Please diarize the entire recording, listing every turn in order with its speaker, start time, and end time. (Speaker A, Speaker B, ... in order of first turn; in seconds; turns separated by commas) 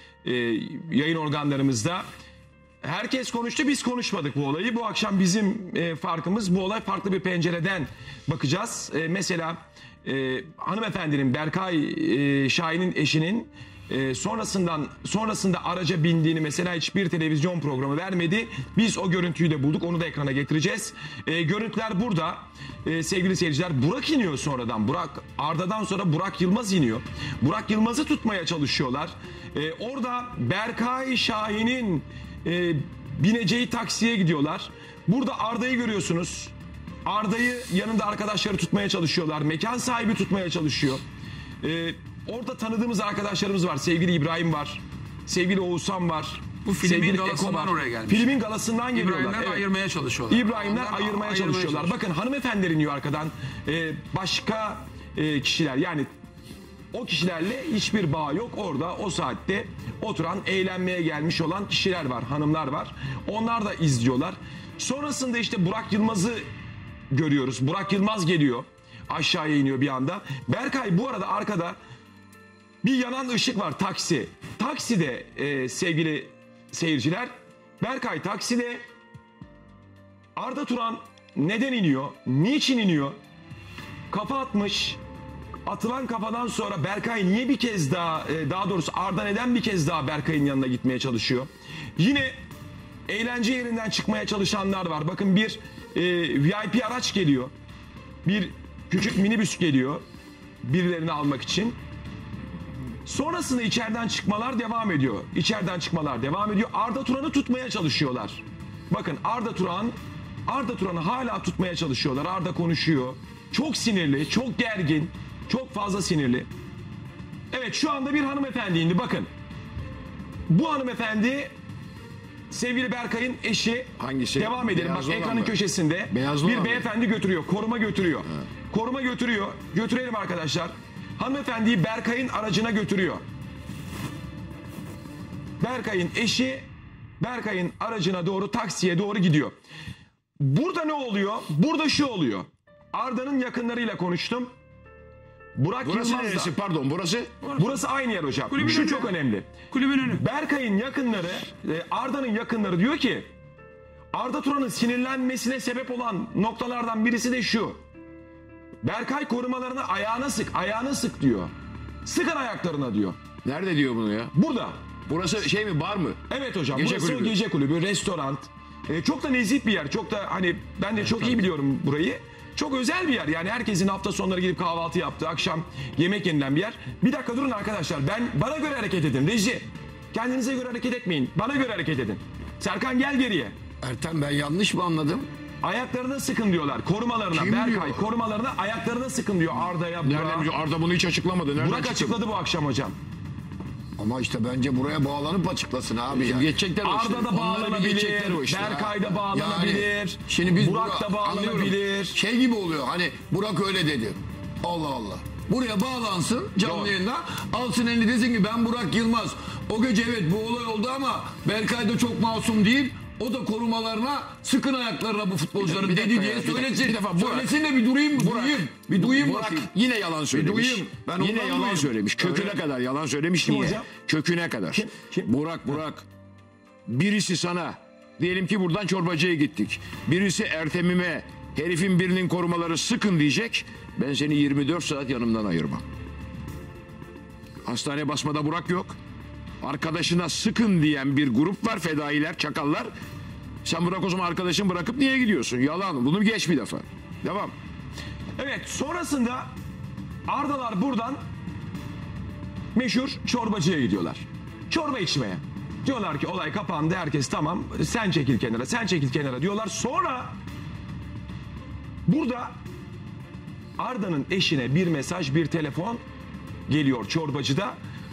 Speaker A: 0.2-2.0, Speaker A: 2.8-36.5, Speaker A: 37.0-41.0, Speaker A: 41.6-49.7, Speaker B: 46.6-48.3, Speaker B: 48.9-51.9, Speaker A: 50.3-56.1, Speaker A: 56.9-66.5, Speaker A: 67.1-71.8, Speaker A: 72.8-78.8, Speaker A: 80.3-83.2, Speaker A: 84.1-85.0, Speaker A: 85.7-92.3, Speaker A: 93.1-97.5, Speaker A: 98.2-100.0, Speaker A: 100.6-101.8, Speaker A: 103.0-110.0, Speaker A: 110.5-116.5, Speaker A: 117.5-119.3, Speaker A: 120.5-121.5, Speaker A: 122.5-133.2, Speaker C: 124.0-125.6, Speaker C: 126.1-126.8, Speaker A: 135.6-139.6, Speaker A: 140.4-144.5, Speaker A: 145.6-146.5, Speaker C: 145.8-147.4, Speaker A: 147.5-153.3, Speaker B: 148.6-149.1, Speaker B: 149.7-150.2, Speaker A: 154.1-157.8, Speaker A: 158.8-161.5, Speaker A: 162.0-163.2, Speaker C: 163.4-164.3, Speaker A: 164.3-164.8, Speaker C: 165.0-166.2, Speaker A: 166.3-183.6, Speaker C: 166.7-167.3, Speaker D: 183.8-185.3, Speaker A: 185.6-190.5, Speaker D: 187.3-188.1, Speaker C: 190.0-192.2, Speaker A: 191.6-192.9, Speaker D: 194.0-196.6, Speaker C: 196.1-199.0, Speaker A: 196.8-202.2, Speaker D: 199.2-219.7, Speaker A: 206.6-206.9, Speaker C: 215.6-217.5, Speaker C: 218.2-226.1, Speaker D: 220.3-222.6, Speaker A: 223.4-223.9, Speaker A: 224.7-225.3, Speaker C: 226.9-235.8, Speaker C: 237.6-239.0, Speaker C: 239.6-242.9, Speaker C: 243.6-247.5, Speaker A: 248.4-249.5, Speaker A: 250.3-251.2, Speaker A: 252.7-260.4, Speaker A: 262.1-262.5, Speaker A: 263.8-266.0, Speaker A: 266.7-267.8